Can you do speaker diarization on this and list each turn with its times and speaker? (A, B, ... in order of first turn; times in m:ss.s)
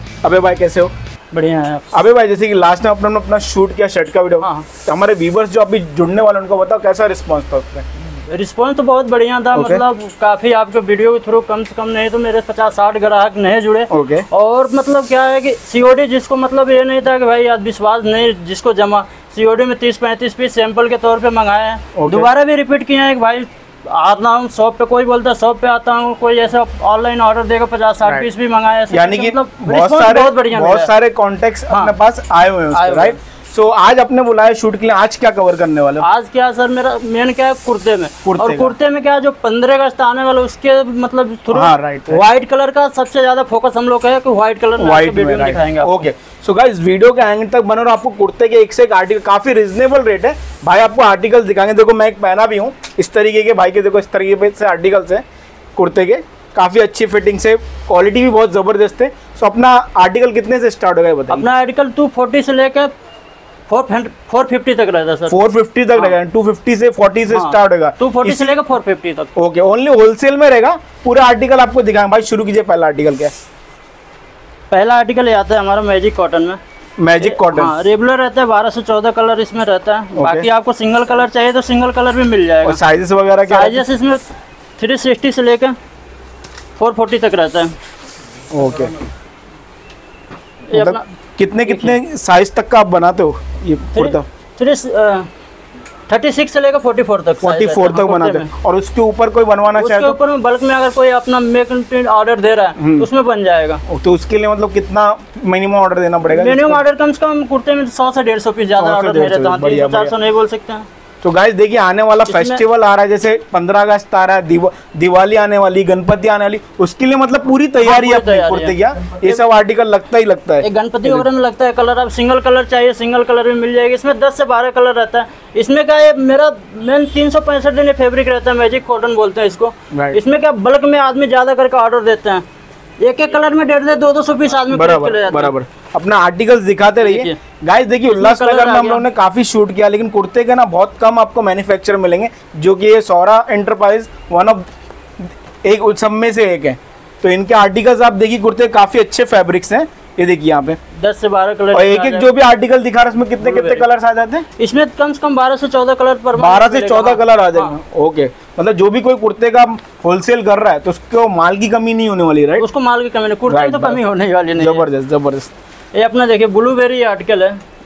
0:00.2-0:00.9 A
0:01.3-0:01.9 B
0:01.9-0:07.9 A
0:04.4-0:04.6 B
0:08.1-0:30.9 B
0:09.5-0:09.8 A
0:13.9-0:14.2 A
0:21.9-0:22.3 A
0:28.9-0:36.0 A
0:31.7-0:32.0 B
0:32.7-0:33.2 B
0:36.0-0:45.9 B
0:38.2-0:38.7 A
0:41.5-0:42.2 A
0:44.8-0:55.2 A
0:55.8-1:01.4 A
1:01.3-1:02.9 B
1:03.7-1:05.4 B
1:05.3-1:08.5 A
1:07.3-1:09.3 B
1:09.4-1:13.3 A
1:14.7-1:16.6 B
1:17.0-1:17.7 A
1:17.2-1:22.8 B
1:20.2-1:20.5 A
1:22.6-1:23.8 A
1:23.4-1:24.2 B
1:24.8-1:25.8 B
1:26.8-1:27.7 B
1:28.5-1:28.9 A
1:30.7-1:31.0 B
1:30.7-1:34.2 A
1:31.6-1:32.0 B
1:33.9-1:35.3 B
1:36.1-1:38.5 B
1:37.4-1:40.2 A
1:39.7-1:43.8 B
1:42.8-1:43.1 A
1:43.9-1:46.8 A
1:46.3-1:50.8 B
1:48.8-1:50.1 A
1:51.2-2:01.2 A
1:52.3-1:52.6 B
1:57.8-1:59.4 B
2:00.6-2:12.4 B
2:09.9-2:10.2 A
2:13.0-2:15.5 B
2:14.7-2:24.6 A
2:17.0-2:17.3 B
2:18.1-2:19.0 B
2:25.2-2:30.8 A
2:31.0-2:32.3 B
2:31.7-2:34.4 A
2:33.4-2:33.8 B
2:34.6-2:37.7 B
2:36.4-2:42.6 A
2:42.6-2:44.8 B
2:43.5-2:44.0 A
2:44.6-2:45.5 A
2:45.9-2:47.6 B